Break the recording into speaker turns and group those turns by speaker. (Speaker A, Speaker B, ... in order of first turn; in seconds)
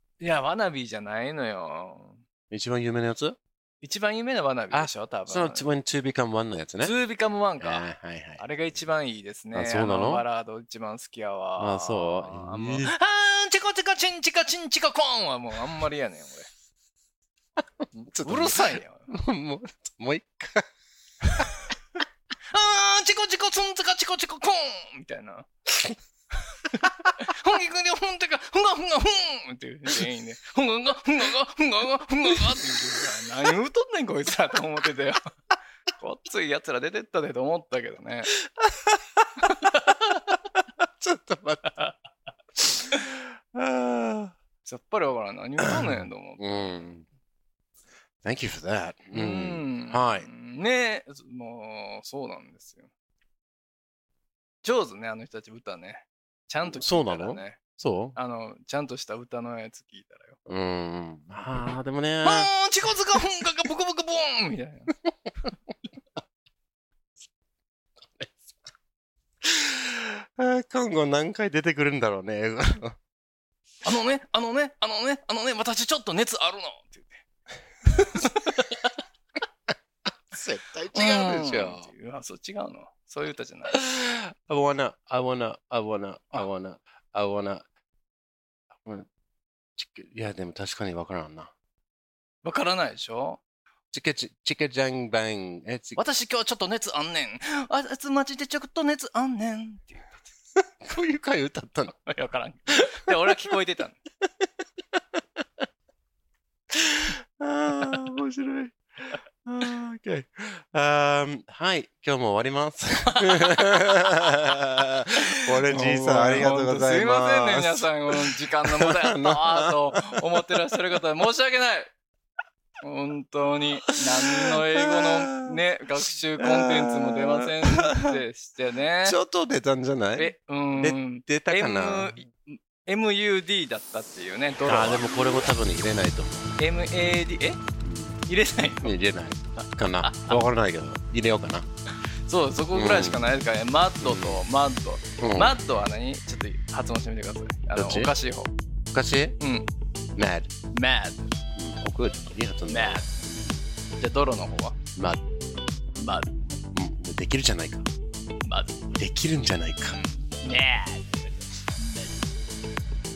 Speaker A: 0.2-2.2, 3.8-5.7, 6.8-16.5, 17.9-19.1, 21.2-21.6, 22.5-25.5, 27.2-35.3, 36.0-38.3, 39.5-40.2, 41.7-41.9, 44.6-46.8, 49.1-52.9, 54.6-57.6, 58.1-60.4, 62.2-64.9, 73.8-77.2, 77.9-78.8, 80.9-83.8, 92.4-93.4, 96.0-100.1, 102.0-104.0, 113.1-113.8, 115.2-121.9, 122.8-129.2, 130.2-135.0, 136.6-137.6, 138.3-139.0, 140.0-140.3, 142.3-148.5, 149.4-149.7, 150.7-151.3, 152.7-153.2, 154.0-154.8, 156.0-156.3, 158.4-158.8, 159.9-162.2
Speaker B: 2.5-3.4, 4.7-7.0, 7.6-8.4, 9.5-10.2, 11.6-12.9, 17.6-20.7, 32.3-32.8, 38.5-39.7, 40.8-41.7, 42.6-44.4, 45.6-47.1, 48.2-50.3, 56.7-58.2, 60.5-62.5, 68.1-68.4, 69.4-73.0, 78.0-78.7, 80.3-81.9, 83.7-87.7, 89.8-91.5, 93.9-96.0, 100.8-102.0, 103.1-103.3, 104.4-105.2, 106.7-120.8, 123.8-125.6, 126.4-128.2, 129.1-132.2, 134.7-136.6, 137.8-138.2, 138.8-141.7, 142.7-143.2, 144.0-144.4, 145.2-145.5, 147.8-148.1, 148.9-149.4, 150.2-150.5, 151.6-153.6, 155.0-155.2, 156.7-157.9, 159.0-160.0